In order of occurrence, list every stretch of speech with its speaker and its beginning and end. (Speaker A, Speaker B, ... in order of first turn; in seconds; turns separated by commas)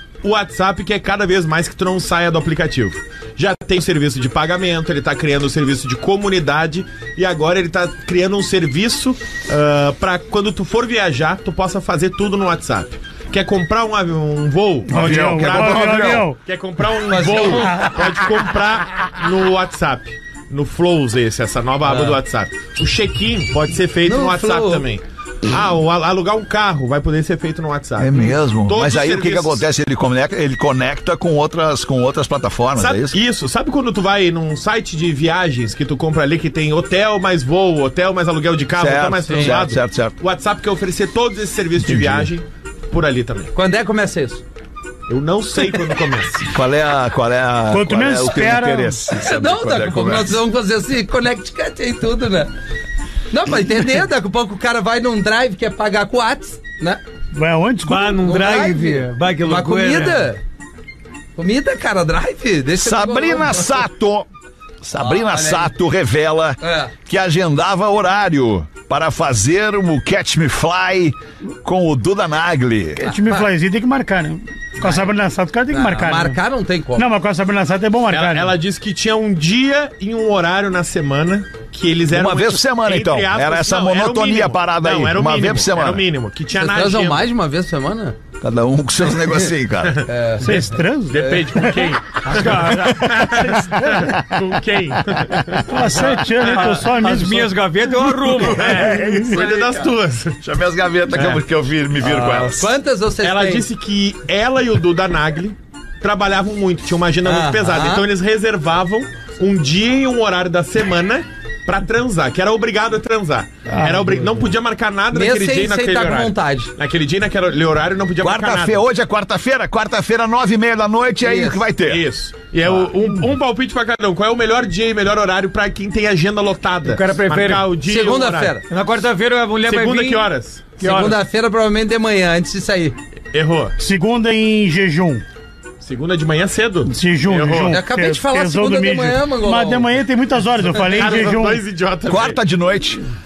Speaker A: 0.2-29.6, Speaker B: 14.9-16.3, Speaker C: 14.9-16.4, Speaker D: 17.1-17.9, Speaker C: 17.6-18.0, Speaker D: 21.9-22.2, Speaker D: 24.0-24.9, Speaker B: 28.0-33.2, Speaker A: 32.8-43.5, Speaker B: 38.8-40.2, Speaker D: 39.3-39.6, Speaker B: 41.8-42.3, Speaker D: 43.5-44.4, Speaker A: 45.1-46.6, Speaker B: 46.5-50.4, Speaker C: 47.7-49.0, Speaker D: 49.2-52.5, Speaker D: 53.3-57.0, Speaker C: 57.3-58.2, Speaker E: 57.9-60.3, Speaker D: 58.2-60.4, Speaker D: 61.4-63.9, Speaker B: 62.8-64.3, Speaker B: 64.8-73.0, Speaker D: 65.0-65.7, Speaker D: 66.6-66.9, Speaker C: 73.0-76.4, Speaker D: 73.0-73.5, Speaker D: 74.8-75.1, Speaker D: 75.7-77.1, Speaker C: 77.0-78.6, Speaker A: 78.1-87.3, Speaker B: 82.1-86.0, Speaker D: 86.5-88.2, Speaker B: 88.4-90.1, Speaker D: 90.1-91.8, Speaker C: 90.4-91.8, Speaker A: 91.1-96.7, Speaker E: 92.2-93.2, Speaker C: 93.5-94.1, Speaker C: 95.5-97.6, Speaker E: 96.0-99.0, Speaker B: 98.3-99.5, Speaker A: 98.4-100.4, Speaker C: 98.8-99.4, Speaker B: 100.4-102.7, Speaker A: 101.1-101.4, Speaker D: 102.0-103.7, Speaker A: 103.2-118.8, Speaker D: 107.2-108.1, Speaker C: 113.7-114.4, Speaker D: 115.1-116.7, Speaker B: 118.2-122.1, Speaker D: 121.2-121.6, Speaker A: 121.9-128.5, Speaker E: 126.8-127.7, Speaker D: 127.8-128.7, Speaker E: 128.7-131.2, Speaker A: 129.7-130.7, Speaker D: 130.8-132.9, Speaker A: 133.3-133.8, Speaker C: 133.8-135.2, Speaker A: 135.8-137.8, Speaker C: 136.9-141.6, Speaker D: 137.6-139.9, Speaker A: 140.7-142.4, Speaker B: 142.1-143.0